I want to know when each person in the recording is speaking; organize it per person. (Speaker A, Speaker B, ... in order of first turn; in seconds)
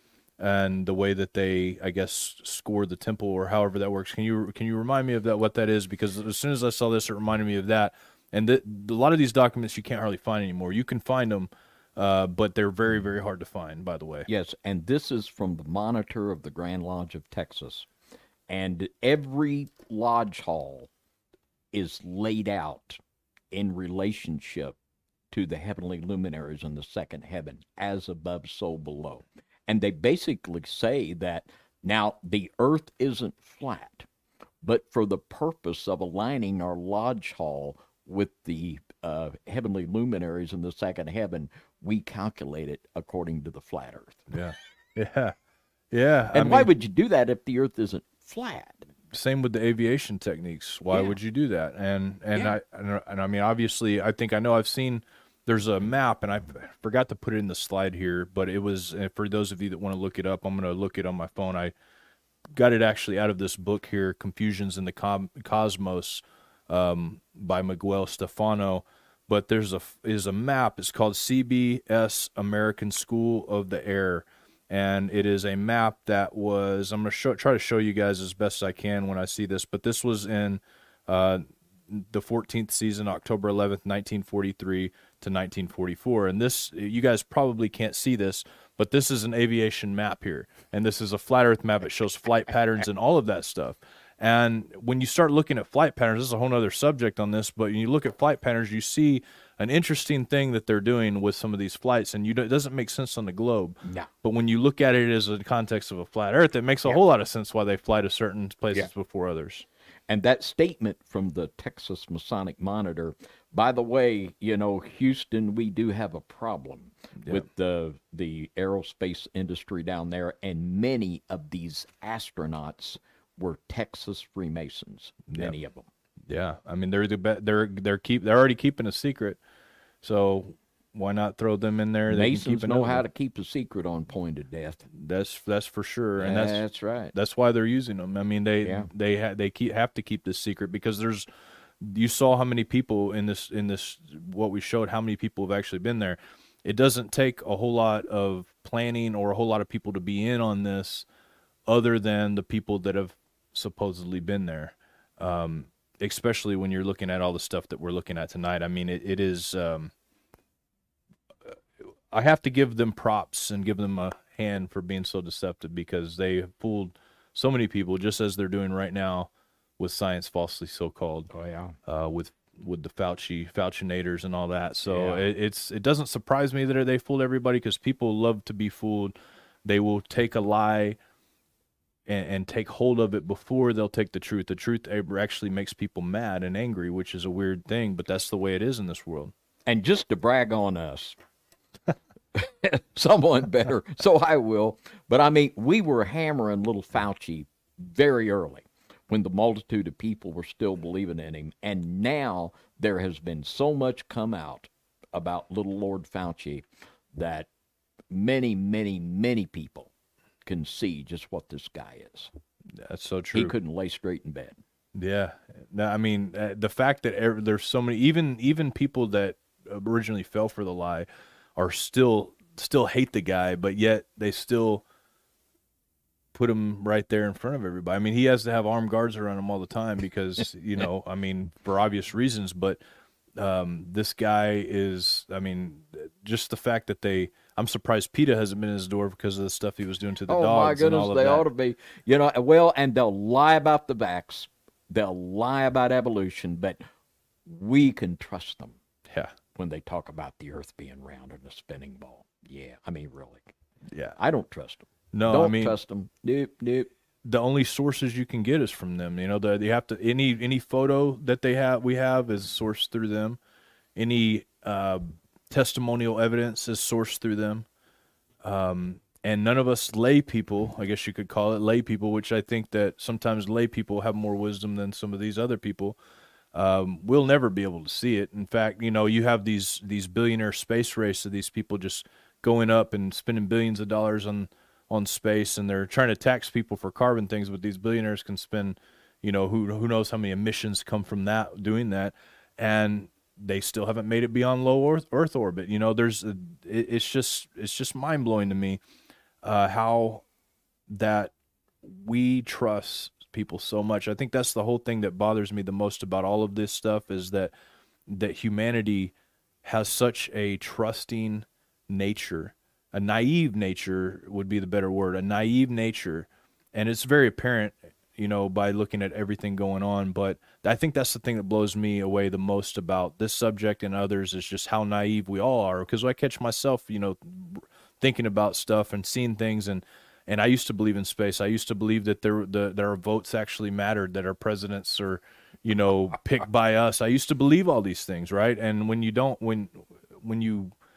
Speaker A: 0.4-14.3, 44.3-45.4, 45.9-46.7, 49.1-61.7, 62.5-109.7, 125.3-125.5, 126.3-129.4, 130.0-133.1, 134.9-141.3, 141.8-151.1, 151.7-159.9, 162.1-171.3, 171.9-181.0, 182.1-189.3, 212.8-213.6, 214.9-224.8, 226.3-232.8, 233.4-241.5, 249.1-249.3, 255.1-255.8, 257.2-263.4, 264.0-267.7, 268.4-276.0, 276.5-298.8, 299.4-300.2, 300.9-307.5, 308.1-309.1, 309.6-340.7
Speaker B: 14.3-17.9, 18.5-20.9, 21.7-23.0, 23.5-24.8, 25.3-34.1, 34.6-44.3, 46.3-48.9, 103.8-104.1, 110.1-125.9, 132.1-134.8, 136.2-137.1, 138.6-138.9, 171.3-171.8, 174.9-175.3, 189.7-191.2, 192.4-207.5, 208.1-209.9, 210.4-212.3, 213.3-214.6, 240.3-246.8, 247.5-248.8, 249.5-253.5, 254.2-256.9